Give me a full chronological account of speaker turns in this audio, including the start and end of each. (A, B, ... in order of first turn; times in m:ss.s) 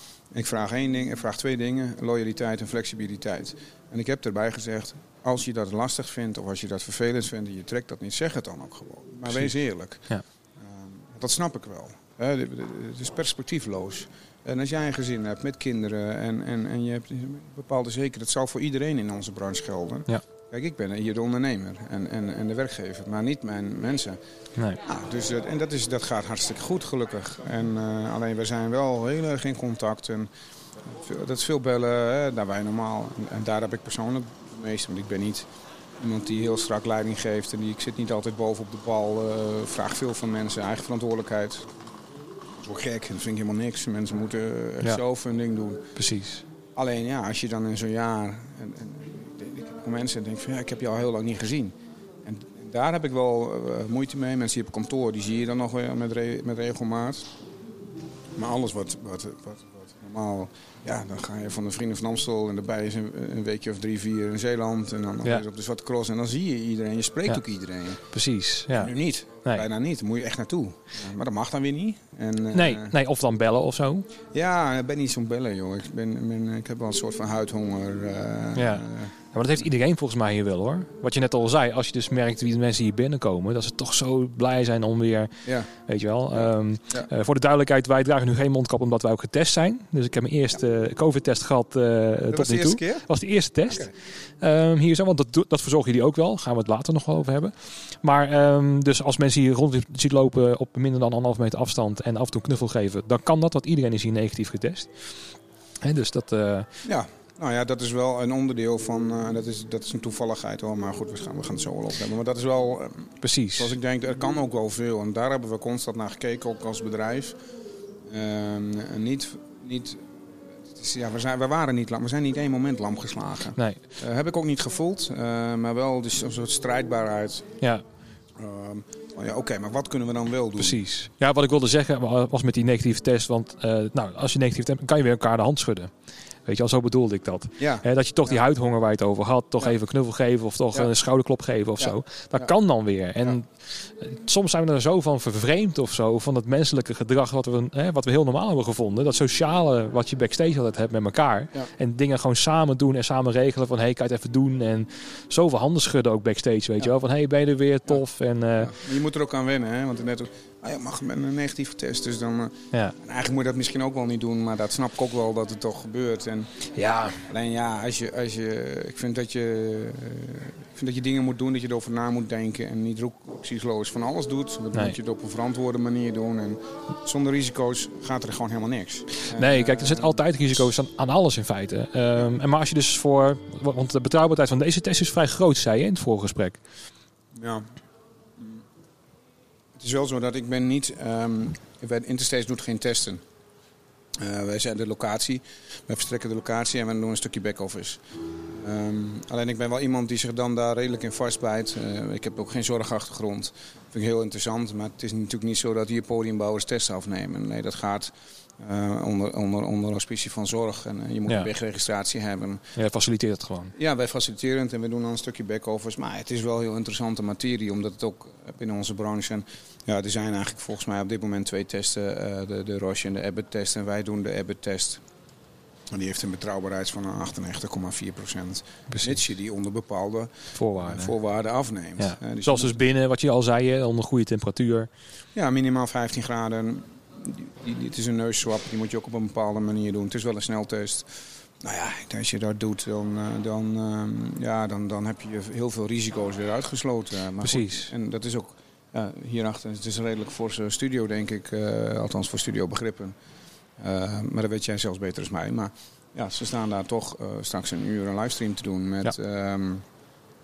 0:00.3-0:10.1 A
0:10.6-0:24.2 A
0:24.8-0:30.3 A
0:30.9-0:35.5 A
0:36.0-0:41.7 A
0:42.6-0:45.9 A
0:46.0-0:46.4 B
0:46.7-0:57.3 A
0:58.4-1:08.0 A
1:08.1-1:08.9 B
1:08.7-1:12.9 A
1:12.5-1:14.1 B
1:14.3-1:19.1 A
1:18.5-1:44.9 B
1:26.3-1:27.1 A
1:32.3-1:33.0 A
1:45.8-1:46.7 B
1:46.8-1:57.4 A
1:53.2-1:53.7 B
1:58.1-2:00.0 A
2:00.6-2:07.5 A
2:03.6-2:03.8 B
2:08.4-2:10.8 A
2:10.6-2:15.9 B
2:16.4-2:38.8 B
2:17.6-2:18.4 A
2:21.8-2:22.5 A
2:38.6-2:46.6 A
2:46.7-2:47.2 B
2:47.2-3:00.3 A
2:59.2-3:06.6 B
3:07.3-3:07.7 A
3:09.8-3:13.2 A
3:14.2-3:32.6 A
3:32.8-3:33.7 B
3:33.8-3:45.0 A
3:45.9-3:52.8 A
3:50.5-3:51.1 B
3:52.0-3:54.9 B
3:55.3-4:13.1 A
4:07.4-4:07.9 B
4:13.8-4:19.8 A